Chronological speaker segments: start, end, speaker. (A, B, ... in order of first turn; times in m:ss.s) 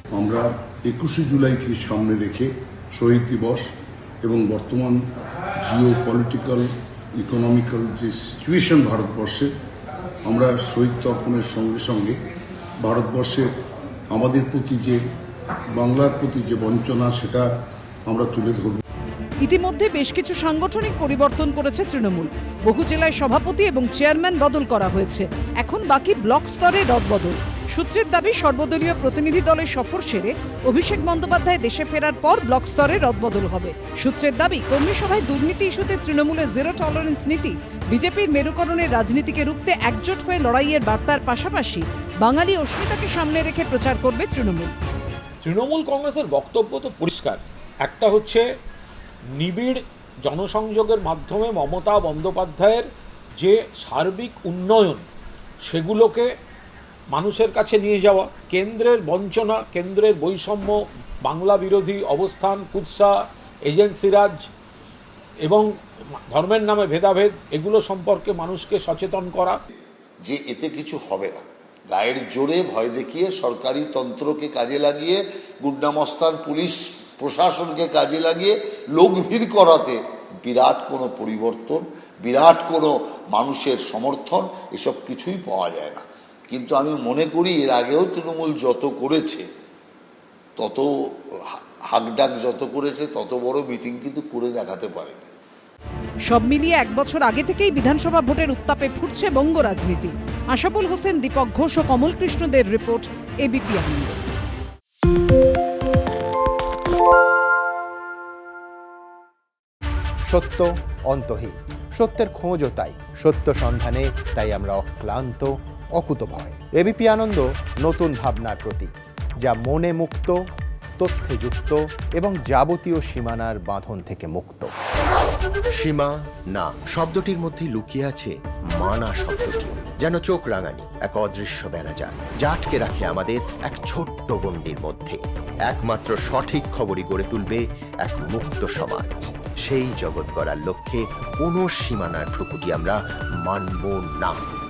0:00.1-0:03.6 A
0:04.2-0:05.0 A
0:05.6-0:06.6 A
0:07.2-0:09.5 A
0:10.2-0:12.2 A
0:12.8-0:13.5 A
0:14.1-0:15.0 A
0:15.8-0:17.5 A
0:18.0-0:18.8 A
0:19.4-0:44.7 B
0:45.4-0:48.4 C
0:49.4-0:52.9 C
0:53.4-0:55.0 C
0:55.6-0:56.3 C
0:57.1-1:03.1 C
1:03.6-1:04.4 C
1:06.3-1:09.6 C
1:10.2-1:29.5 D
1:30.6-1:35.3 D
1:36.3-1:44.2 B
1:50.3-1:58.9 E
1:59.4-2:00.4 E
2:01.0-2:04.7 E
2:05.7-2:24.4 F